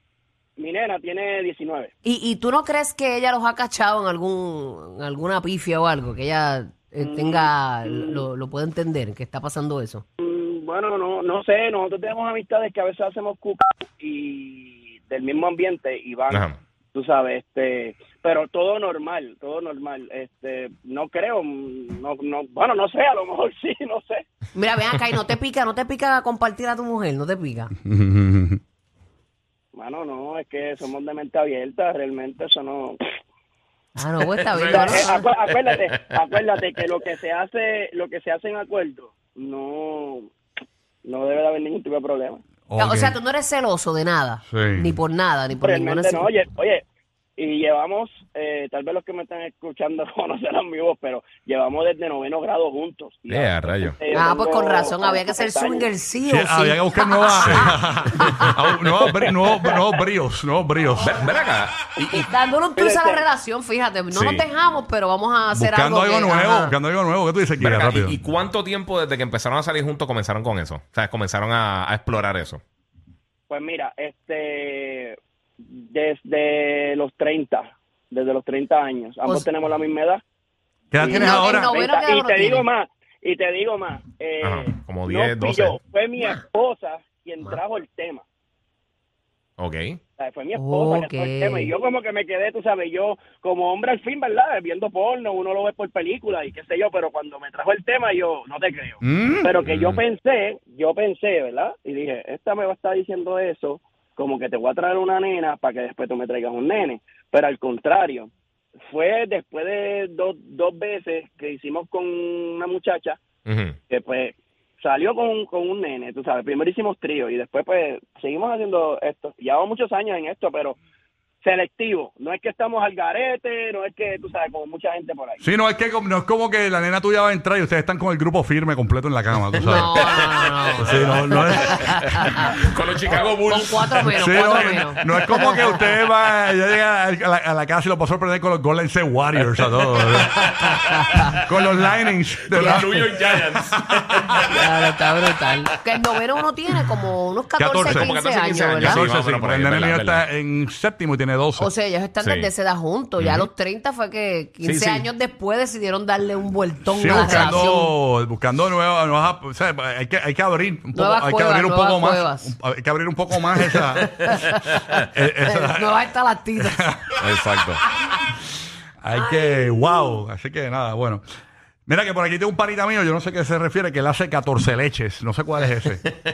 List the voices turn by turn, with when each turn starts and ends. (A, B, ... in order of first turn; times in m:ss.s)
0:00.6-0:01.9 A
0:02.0-0:10.0 B
0:07.0-0:08.2 A
0:10.2-0:24.2 A
0:16.3-0:16.6 C
0:24.5-0:27.7 B
0:27.8-0:28.6 D
0:29.7-0:33.0 A
0:34.0-0:35.2 B
0:34.4-0:36.4 C
0:34.5-0:40.3 A
0:41.0-0:42.4 A
0:42.7-0:43.2 D
0:42.8-0:46.3 B
0:44.5-0:45.0 D
0:45.6-0:46.8 A
0:47.4-0:55.9 A
0:53.3-0:54.0 C
0:54.1-0:57.7 B
0:56.2-1:01.2 D
0:57.4-0:57.7 C
1:01.0-1:01.9 C
1:02.0-1:02.2 A
1:02.0-1:06.8 B
1:02.8-1:03.2 A
1:04.1-1:04.4 D
1:05.5-1:08.2 D
1:07.6-1:12.6 C
1:13.5-1:20.2 A
1:20.9-1:21.7 D
1:21.0-1:28.2 A
1:21.1-1:22.7 B
1:24.4-1:25.8 C
1:29.6-1:30.0 C
1:30.2-1:48.3 A
1:30.5-1:31.7 B
1:39.0-1:39.5 D
1:39.6-1:40.0 C
1:48.9-1:53.2 A
1:53.4-1:53.8 C
1:53.9-2:00.8 A
2:01.4-2:05.4 A
2:05.4-2:10.0 D
2:09.6-2:12.5 B
2:10.0-2:14.7 C
2:10.8-2:12.4 D
2:13.2-2:15.8 B
2:14.0-2:20.6 D
2:19.4-2:21.3 C
2:20.5-2:21.2 B
2:21.4-2:24.5 D
2:22.5-2:24.6 C
2:22.5-2:22.9 B
2:24.5-2:29.0 B
2:27.6-2:28.1 D
2:27.8-2:30.2 C
2:28.8-2:31.7 D
2:31.6-2:37.9 B
2:32.2-2:32.5 C
2:33.2-2:33.5 C
2:34.6-2:35.1 C
2:36.8-2:46.0 D
2:40.9-2:42.5 B
2:43.7-2:44.8 B
2:45.4-2:47.0 B
2:46.6-2:47.2 D
2:47.2-2:47.8 C
2:49.0-2:51.2 D
2:49.1-2:50.2 B
2:51.9-2:56.0 D